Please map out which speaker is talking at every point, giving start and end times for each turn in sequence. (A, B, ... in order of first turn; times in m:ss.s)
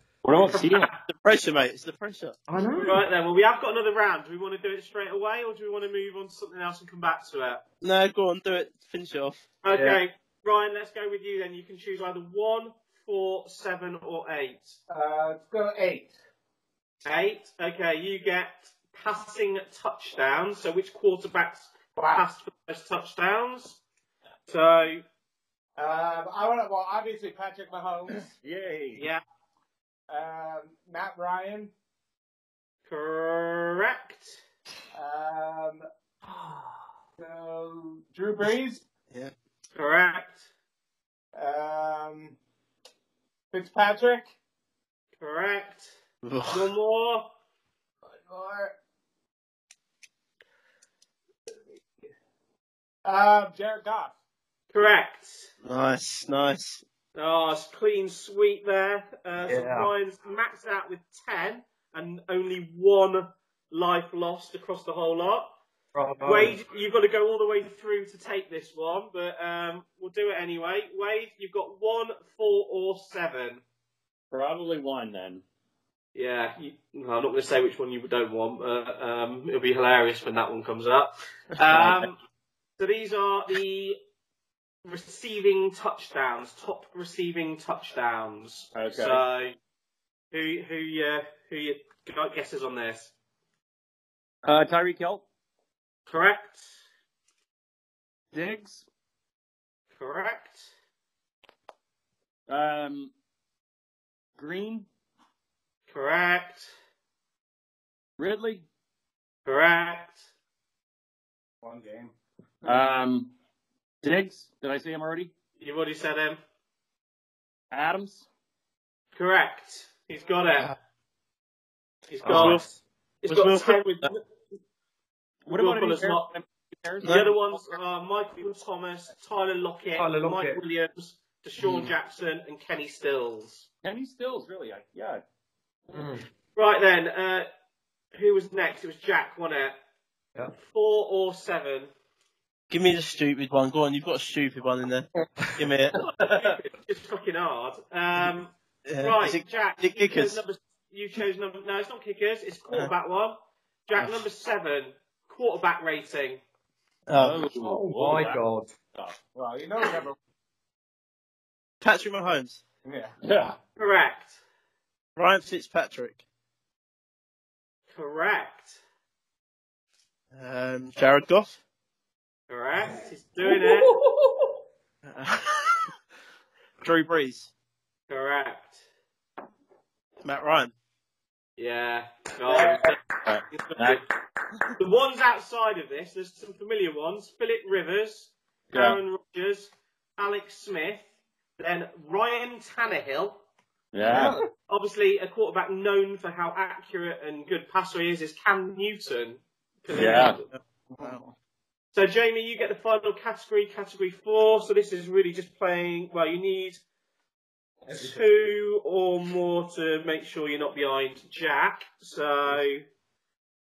0:00.2-0:00.9 A
0:00.6-0:01.0 B
0:01.1-0:02.4 C
0:02.5-0:03.0 D
0:02.7-0:07.6 B
0:07.8-0:09.4 C
0:09.6-0:14.8 B
0:09.7-0:10.0 D
0:14.9-0:16.1 E
0:17.0-0:23.8 B
0:22.0-0:22.2 E
0:24.5-0:25.0 B
0:25.8-0:28.3 E
0:28.4-0:29.0 A
0:28.9-0:29.2 B
0:30.1-0:31.7 E
0:32.9-0:34.4 B
0:34.9-0:35.8 E
0:36.2-0:36.8 D
0:37.2-0:38.8 E
0:39.7-0:40.4 B
0:41.3-0:42.4 E
0:43.5-0:44.3 E
0:45.2-0:45.9 B
0:46.2-0:46.7 C
0:46.4-0:47.3 B
0:48.1-0:48.7 E
0:53.0-0:54.1 E
0:54.7-0:55.5 B
0:55.6-0:56.8 C
0:57.1-1:05.5 B
0:59.5-0:59.9 D
1:05.9-1:06.6 D
1:06.2-1:13.6 B
1:14.3-1:15.4 A
1:16.1-1:22.2 B
1:22.8-1:24.0 B
1:24.8-1:29.6 B
1:28.7-1:29.2 A
1:30.3-1:33.1 B
1:34.4-1:35.2 A
1:36.1-1:36.7 B
1:38.3-1:38.8 A
1:40.0-1:40.7 B
1:42.5-1:43.1 A
1:44.4-1:44.9 A
1:45.9-1:46.7 B
1:48.2-1:48.6 A
1:49.4-1:50.2 B
1:51.6-1:52.1 E
1:52.6-1:53.3 A
1:54.0-1:55.3 A
1:55.6-1:56.4 B
1:57.7-1:58.2 A
1:59.1-2:00.7 B
2:02.1-2:02.6 B
2:02.2-2:02.8 D
2:02.3-2:02.7 C
2:03.2-2:04.2 B
2:03.3-2:04.1 C
2:05.4-2:07.7 A
2:05.5-2:06.3 B
2:07.0-2:13.7 B
2:10.0-2:10.6 D
2:11.6-2:11.9 D
2:13.8-2:15.2 A
2:15.9-2:16.2 D
2:16.6-2:17.5 B
2:18.1-2:19.8 B
2:20.6-2:21.9 B
2:22.7-2:26.0 C
2:26.0-2:26.6 D
2:26.0-2:36.4 B
2:28.8-2:30.4 C
2:37.1-2:37.4 C
2:37.2-2:38.4 A
2:37.6-2:38.7 D
2:39.3-2:40.2 E
2:41.8-2:42.6 C
2:42.8-2:43.1 E
2:43.2-2:43.6 A
2:43.8-2:44.4 B
2:45.2-2:46.2 C
2:47.9-2:48.8 B
2:50.3-2:51.6 C
2:52.5-2:53.9 B
2:53.4-2:54.6 D
2:55.0-2:55.7 C
2:56.8-2:57.5 C
2:58.1-2:58.8 B
3:00.2-3:00.7 C
3:01.6-3:03.0 B
3:02.5-3:02.9 E
3:03.2-3:04.0 A
3:03.5-3:04.0 B
3:04.8-3:11.1 B
3:08.7-3:09.0 A
3:11.6-3:13.4 B
3:13.9-3:14.3 A
3:14.0-3:14.4 E
3:14.7-3:20.5 B
3:19.9-3:20.4 A
3:21.0-3:21.2 E
3:21.9-3:26.8 B
3:27.8-3:28.2 D
3:27.9-3:32.8 B